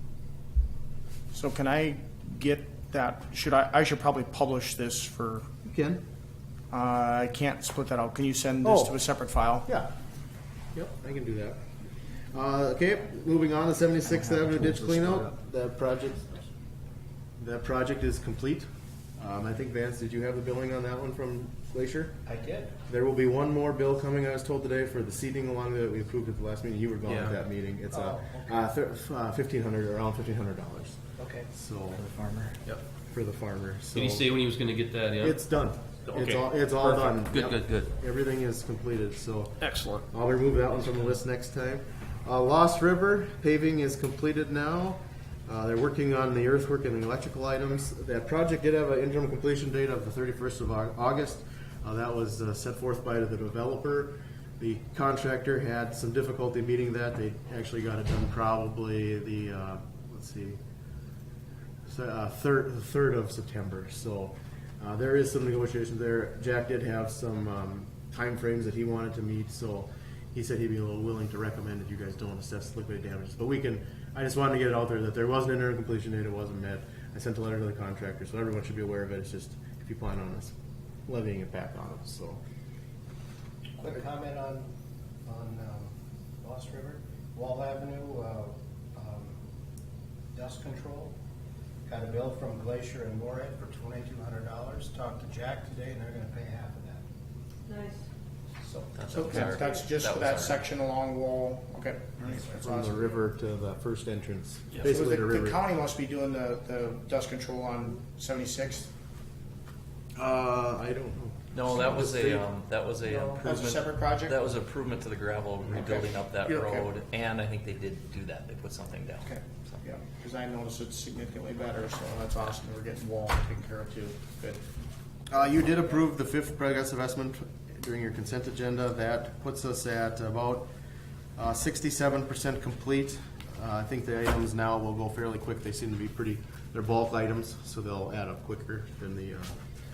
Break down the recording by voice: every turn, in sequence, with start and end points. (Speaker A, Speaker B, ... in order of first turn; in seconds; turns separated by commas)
Speaker A: 1.3-5.5, Speaker B: 5.7-6.0, Speaker A: 6.7-9.7, Speaker B: 8.6-8.9, Speaker B: 9.6-9.9, Speaker B: 10.7-11.6, Speaker B: 12.3-16.4, Speaker C: 14.7-15.1, Speaker B: 17.4-22.2, Speaker D: 22.2-22.8, Speaker B: 22.9-32.1, Speaker C: 27.1-27.4, Speaker D: 27.9-28.7, Speaker D: 31.2-31.5, Speaker B: 33.1-34.3, Speaker C: 33.9-35.4, Speaker B: 35.2-60.6, Speaker C: 36.8-37.9, Speaker A: 39.6-40.0, Speaker B: 61.9-80.5, Speaker B: 81.1-82.4, Speaker D: 83.8-84.7, Speaker D: 85.2-89.4, Speaker D: 90.3-91.1, Speaker D: 91.8-97.0, Speaker D: 98.6-98.9, Speaker E: 98.9-100.6, Speaker A: 99.1-103.1, Speaker B: 102.6-105.6, Speaker A: 104.8-108.9, Speaker B: 110.1-112.5, Speaker E: 111.5-119.8, Speaker A: 113.1-114.4, Speaker A: 115.7-116.9, Speaker A: 119.2-124.6, Speaker B: 125.3-130.7, Speaker B: 131.3-139.5